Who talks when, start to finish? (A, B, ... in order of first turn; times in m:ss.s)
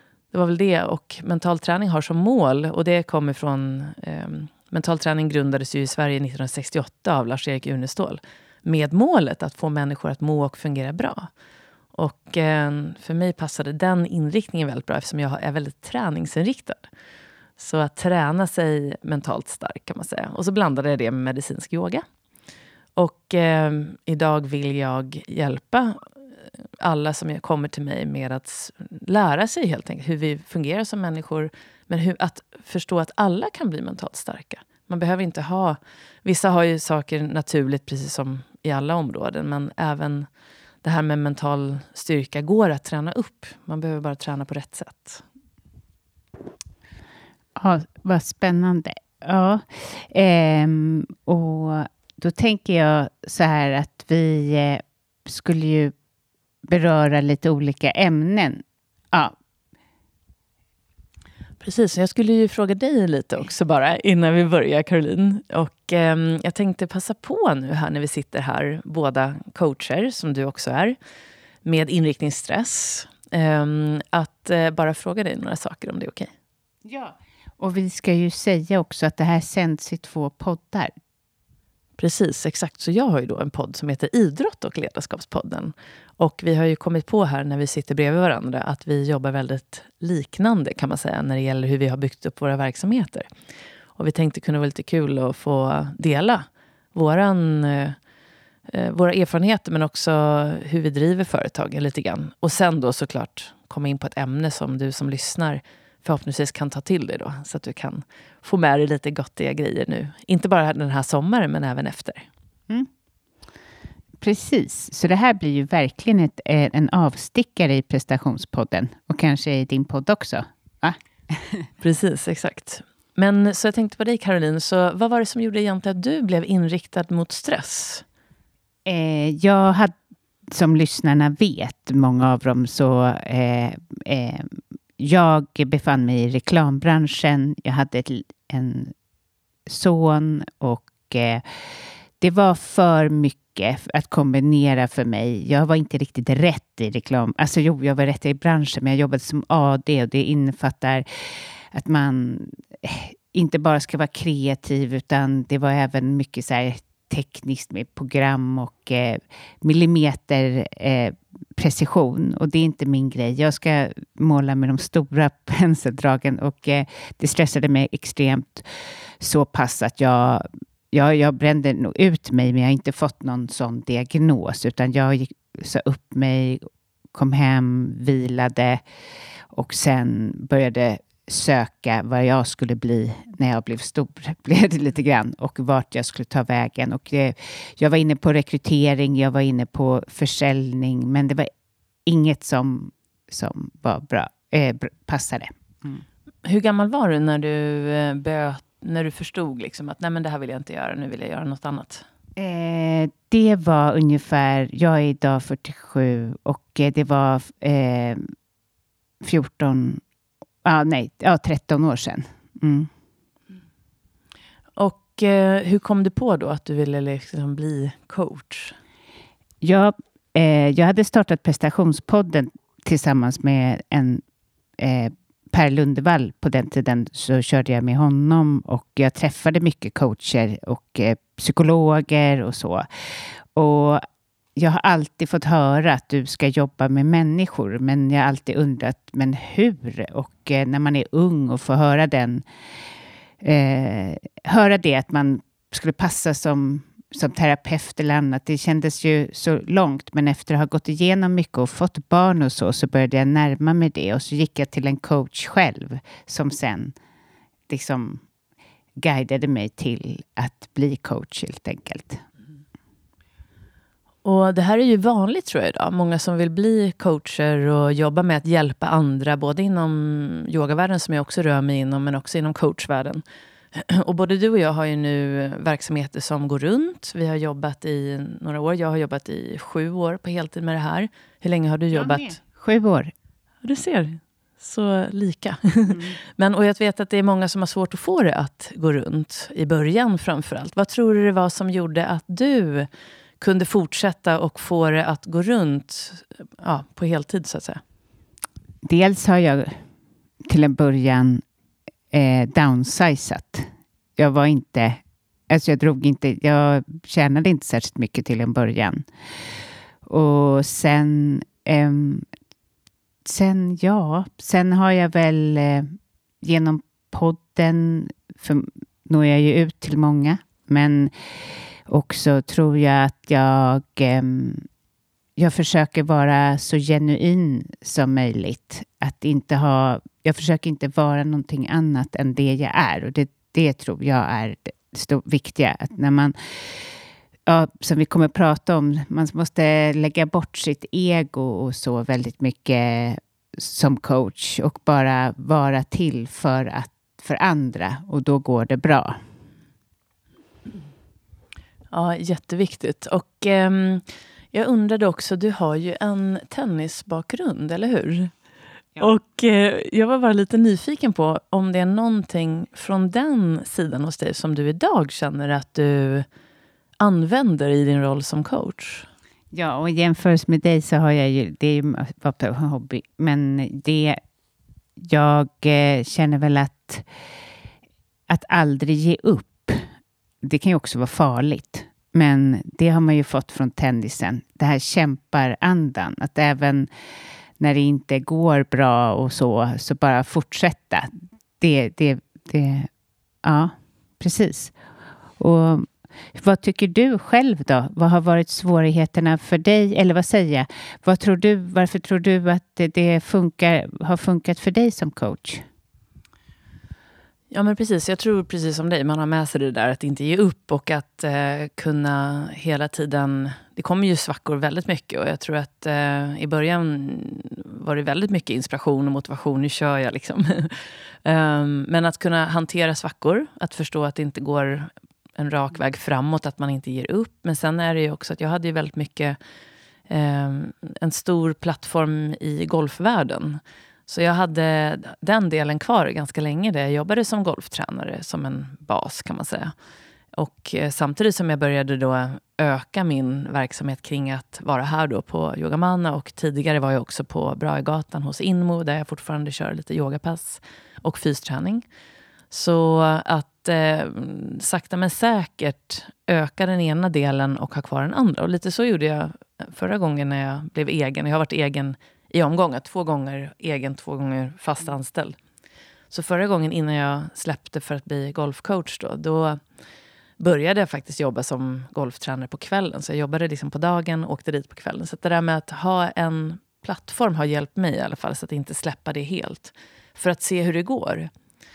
0:00.3-0:11.3 A
0:11.9-0:16.8 A
0:17.6-0:22.0 A
0:23.0-0:26.2 A
0:26.8-0:40.3 A
0:40.8-0:45.2 A
0:47.6-0:55.9 B
0:56.7-0:59.3 B
1:01.6-1:11.0 A
1:11.6-1:16.3 A
1:16.8-1:20.9 B
1:22.0-1:33.3 A
1:34.0-1:38.0 A
1:38.7-1:52.3 A
1:54.2-2:01.6 B
2:01.8-2:08.0 A
2:08.8-2:09.9 B
2:10.5-2:18.9 B
2:19.6-2:58.8 B
2:59.5-3:11.5 B
3:12.0-3:16.0 B
3:16.4-3:22.0 A
3:22.4-3:28.3 B
3:29.2-3:30.0 B
3:30.6-3:32.9 B
3:34.8-3:38.8 A
3:39.6-3:44.2 B
3:44.8-4:02.4 B
4:03.4-4:16.9 B
4:17.7-4:18.2 B
4:19.0-4:22.2 B
4:24.2-4:33.2 A
4:33.7-4:42.4 A
4:41.9-4:43.1 B
4:43.6-4:52.9 A
4:45.9-4:46.2 B
4:53.4-4:57.8 A
4:58.8-4:59.8 B
5:00.5-5:01.4 B
5:02.1-5:09.1 B
5:10.0-5:12.3 B
5:13.2-5:24.7 B
5:25.4-5:49.2 B
5:51.9-5:58.3 A
5:59.0-6:06.3 A
6:07.0-6:09.1 A
6:09.5-6:14.2 B
6:15.0-6:17.0 B
6:18.3-6:19.9 B
6:20.4-6:26.9 B
6:27.6-6:32.9 B
6:33.4-6:34.7 B
6:35.4-6:45.6 B
6:47.5-7:09.4 A
7:10.1-7:19.7 A
7:20.4-7:31.8 A
7:32.5-7:45.4 A
7:46.1-7:49.6 A
7:50.4-8:01.3 A